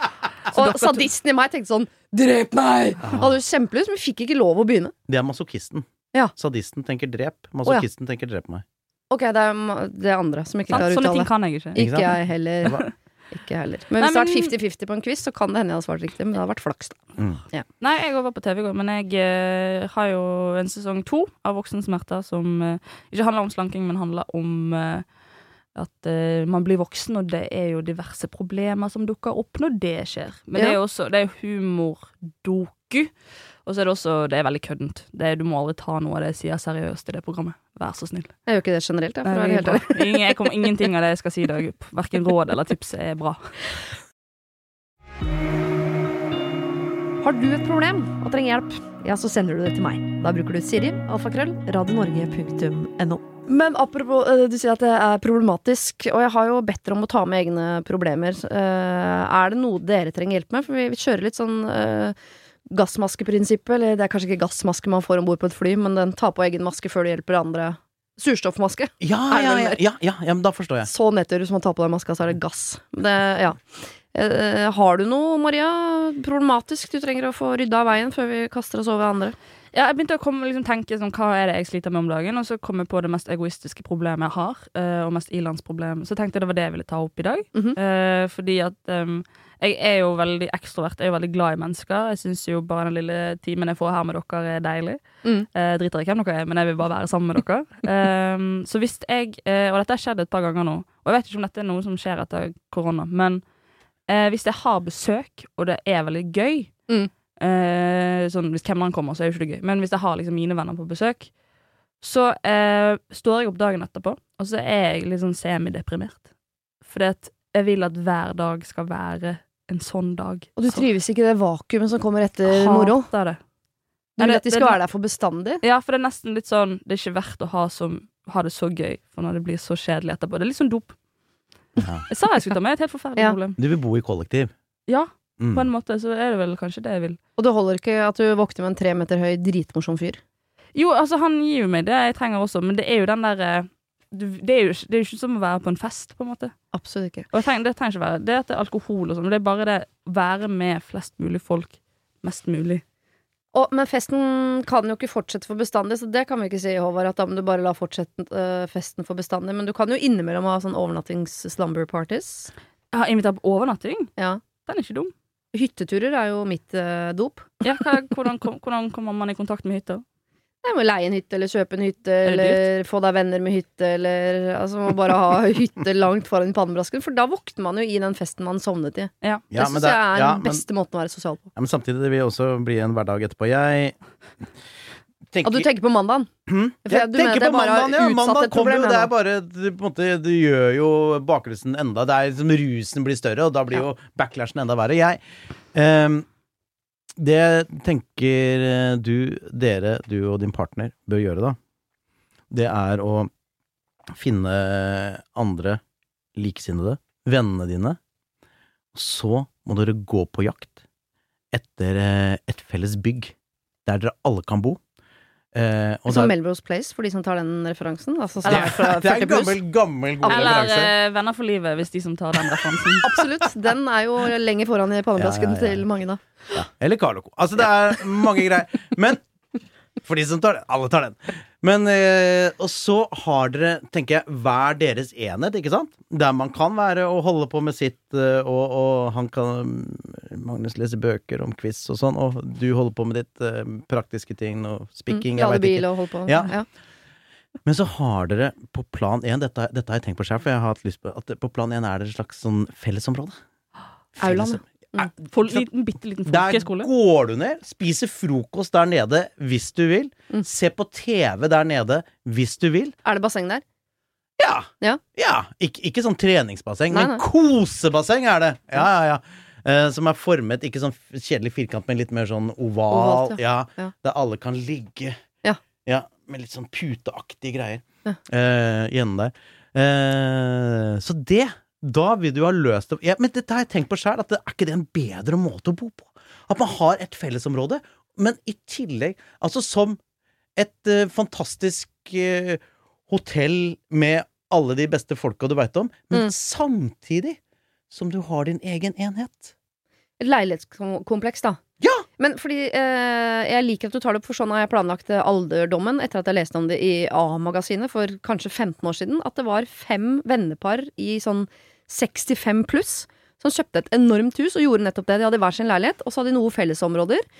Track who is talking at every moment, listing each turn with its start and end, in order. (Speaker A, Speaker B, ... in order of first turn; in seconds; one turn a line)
Speaker A: 0.5-1.1
Speaker B: 0.5-4.9
Speaker C: 3.0-3.3
Speaker C: 5.1-8.6
Speaker B: 9.1-17.0
Speaker A: 10.7-11.8
Speaker C: 11.8-12.8
Speaker A: 14.0-14.5
Speaker C: 17.2-17.4
Speaker A: 17.8-25.0
Speaker A: 25.7-33.1
Speaker A: 33.6-38.4
Speaker B: 38.5-40.2
Speaker A: 39.2-43.5
Speaker B: 47.2-62.1
Speaker B: 62.7-69.8
Speaker C: 69.0-70.9
Speaker B: 70.8-79.3
Speaker A: 79.7-95.0
Speaker A: 95.5-103.4
Speaker A: 104.1-106.7
Speaker A: 107.4-111.3
Speaker A: 112.0-116.2
Speaker A: 116.8-120.8
Speaker B: 120.6-123.1
Speaker A: 122.5-123.4
Speaker B: 124.2-125.6
Speaker A: 124.2-124.8
Speaker A: 125.6-130.9
Speaker A: 132.1-133.6
Speaker C: 133.6-134.5
Speaker A: 134.9-137.2
Speaker C: 135.4-135.7
Speaker B: 137.4-140.2
Speaker A: 140.7-146.5
Speaker B: 146.7-147.3
Speaker A: 147.3-152.8
Speaker B: 153.5-162.5
Speaker A: 162.9-164.1
Speaker A: 164.6-165.1
Speaker B: 165.5-167.5
Speaker A: 167.6-170.0
Speaker B: 170.6-181.4
Speaker A: 172.2-172.6
Speaker C: 179.5-180.7
Speaker C: 181.6-183.9
Speaker C: 185.3-185.7
Speaker B: 185.4-186.3
Speaker C: 186.5-195.2
Speaker B: 186.8-189.1
Speaker C: 195.7-196.2
Speaker C: 197.2-201.6
Speaker C: 202.5-203.3
Speaker C: 204.1-205.8
Speaker C: 206.4-208.0
Speaker C: 208.9-210.7
Speaker C: 211.5-213.3
Speaker C: 213.8-214.8
Speaker C: 215.5-216.3
Speaker B: 216.1-219.6
Speaker A: 218.4-218.8
Speaker C: 218.4-220.9
Speaker B: 220.2-220.6
Speaker A: 220.3-223.1
Speaker B: 223.0-226.2
Speaker C: 225.2-225.8
Speaker C: 226.5-229.2
Speaker C: 230.0-246.6
Speaker B: 245.1-246.7
Speaker C: 247.7-253.3
Speaker C: 254.2-255.7
Speaker B: 254.2-255.1
Speaker A: 255.3-256.9
Speaker C: 256.2-262.9
Speaker B: 263.0-263.6
Speaker C: 264.4-275.2
Speaker B: 266.9-267.2
Speaker B: 272.9-273.9
Speaker C: 275.8-290.0
Speaker C: 290.6-297.4
Speaker C: 297.9-299.5
Speaker B: 300.2-301.6
Speaker C: 301.8-302.0
Speaker B: 302.2-317.2